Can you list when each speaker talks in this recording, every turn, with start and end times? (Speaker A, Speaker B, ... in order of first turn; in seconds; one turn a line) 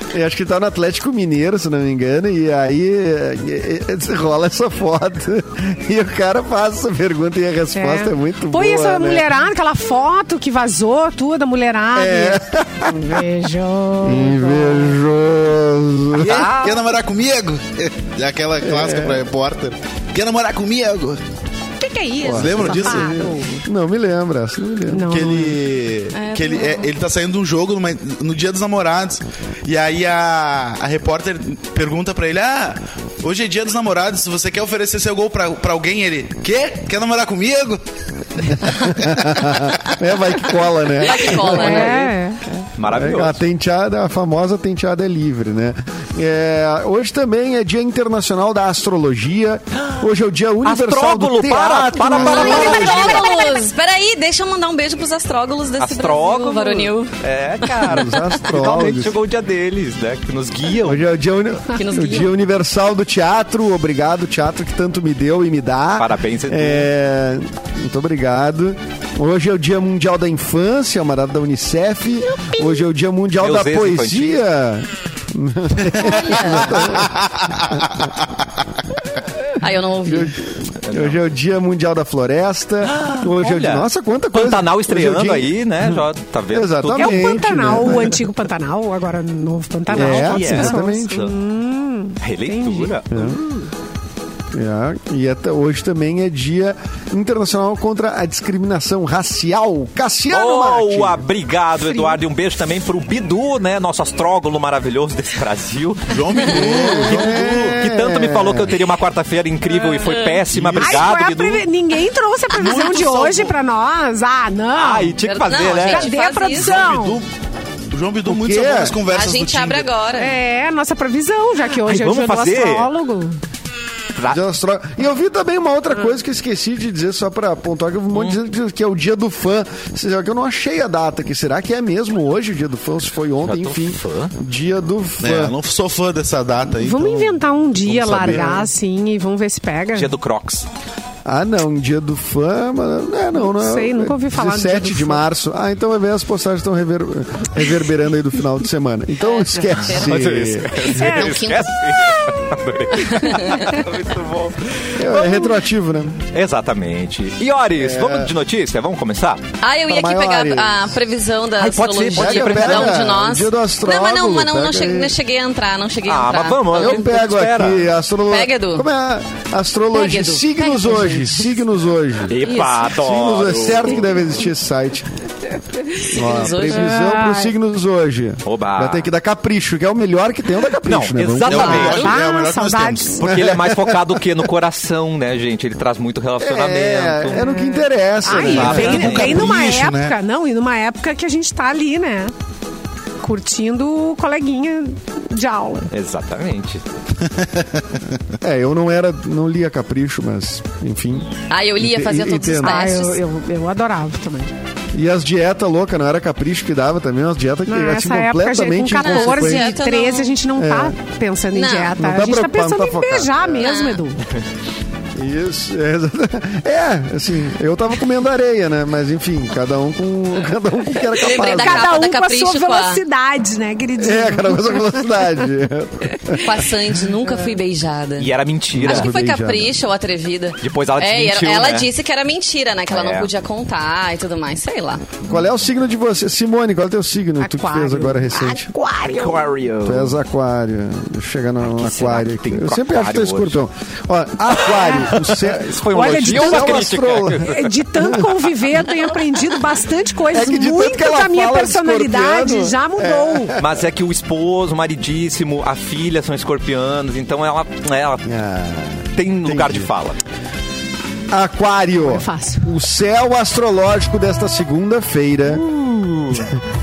Speaker A: 0.1-9.3
Speaker B: 7.7-15.0
Speaker A: 11.9-13.2
Speaker A: 14.0-16.5
Speaker C: 16.1-16.4
Speaker D: 16.2-21.2
Speaker E: 16.2-16.9
Speaker A: 18.6-19.2
Speaker B: 21.8-23.6
Speaker A: 22.2-25.6
Speaker D: 22.2-23.2
Speaker B: 24.9-25.4
Speaker D: 25.1-37.8
Speaker E: 26.1-26.9
Speaker D: 38.4-39.7
Speaker A: 38.6-42.0
Speaker E: 40.9-42.0
Speaker B: 41.4-42.5
Speaker C: 41.6-42.0
Speaker C: 42.8-43.4
Speaker A: 42.9-53.3
Speaker C: 50.6-53.3
Speaker E: 52.1-57.1
Speaker C: 55.8-61.0
Speaker A: 57.8-59.1
Speaker A: 60.8-78.0
Speaker E: 61.7-62.3
Speaker C: 66.0-66.9
Speaker C: 73.3-74.4
Speaker E: 76.0-76.9
Speaker D: 77.0-77.8
Speaker E: 79.6-80.3
Speaker A: 80.0-86.0
Speaker C: 80.8-81.2
Speaker C: 82.8-87.5
Speaker A: 86.5-88.2
Speaker B: 87.0-93.6
Speaker C: 89.9-91.3
Speaker A: 89.9-91.2
Speaker C: 92.2-93.2
Speaker A: 93.1-93.4
Speaker A: 94.5-101.2
Speaker C: 100.3-111.7
Speaker D: 106.1-107.8
Speaker A: 106.4-108.8
Speaker E: 109.7-110.5
Speaker D: 110.5-111.0
Speaker B: 110.8-115.2
Speaker D: 112.5-113.5
Speaker C: 114.8-116.1
Speaker E: 115.2-116.8
Speaker B: 115.8-117.2
Speaker D: 116.5-117.3
Speaker D: 117.9-119.9
Speaker A: 118.3-119.0
Speaker E: 119.0-120.3
Speaker B: 120.2-123.4
Speaker C: 121.8-122.9
Speaker C: 124.2-124.4
Speaker A: 124.3-135.5
Speaker C: 128.1-128.4
Speaker C: 133.4-134.3
Speaker D: 135.2-138.5
Speaker B: 136.8-140.1
Speaker A: 137.9-138.7
Speaker C: 139.9-140.7
Speaker A: 141.2-150.9
Speaker B: 143.4-145.2
Speaker E: 149.2-150.2
Speaker C: 149.8-155.5
Speaker B: 150.9-151.4
Speaker E: 150.9-152.2
Speaker E: 153.0-153.8
Speaker A: 154.9-156.2
Speaker C: 156.3-159.4
Speaker A: 157.8-158.3
Speaker E: 159.6-167.0
Speaker A: 159.9-161.0
Speaker C: 161.6-163.1
Speaker A: 162.1-165.1
Speaker C: 166.1-167.9
Speaker A: 166.7-175.1
Speaker E: 168.3-168.9
Speaker E: 169.9-171.4
Speaker C: 172.3-174.3
Speaker E: 172.4-172.8
Speaker E: 176.1-177.0
Speaker A: 176.1-181.9
Speaker B: 176.6-177.5
Speaker C: 178.4-179.1
Speaker C: 180.8-182.2
Speaker D: 181.4-183.3
Speaker E: 181.5-182.1
Speaker B: 181.7-183.2
Speaker C: 183.2-187.4
Speaker A: 183.2-184.2
Speaker A: 186.4-189.4
Speaker B: 187.3-192.3
Speaker C: 188.3-189.5
Speaker D: 188.8-190.2
Speaker B: 193.2-195.9
Speaker C: 195.9-196.8
Speaker D: 197.3-198.0
Speaker A: 198.4-202.8
Speaker E: 201.5-203.2
Speaker B: 202.6-204.5
Speaker A: 204.9-209.8
Speaker B: 207.7-214.2
Speaker E: 209.0-210.4
Speaker A: 210.6-210.9
Speaker E: 211.5-211.9
Speaker A: 211.9-213.7
Speaker E: 213.6-214.0
Speaker A: 215.1-222.0
Speaker E: 221.2-223.0
Speaker B: 221.2-225.2
Speaker A: 224.0-226.7
Speaker E: 226.3-235.1
Speaker C: 228.2-229.1
Speaker A: 228.7-229.8
Speaker C: 230.6-231.9
Speaker C: 232.9-233.3
Speaker C: 235.2-235.5
Speaker A: 235.3-238.7
Speaker B: 237.4-239.4
Speaker C: 239.1-240.1
Speaker A: 239.8-248.2
Speaker C: 241.8-243.6
Speaker C: 244.6-247.7
Speaker B: 245.9-253.6
Speaker A: 250.3-253.7
Speaker C: 253.6-258.2
Speaker A: 258.2-259.9
Speaker C: 259.1-260.2
Speaker A: 261.3-265.6
Speaker B: 262.0-262.7
Speaker C: 265.4-266.6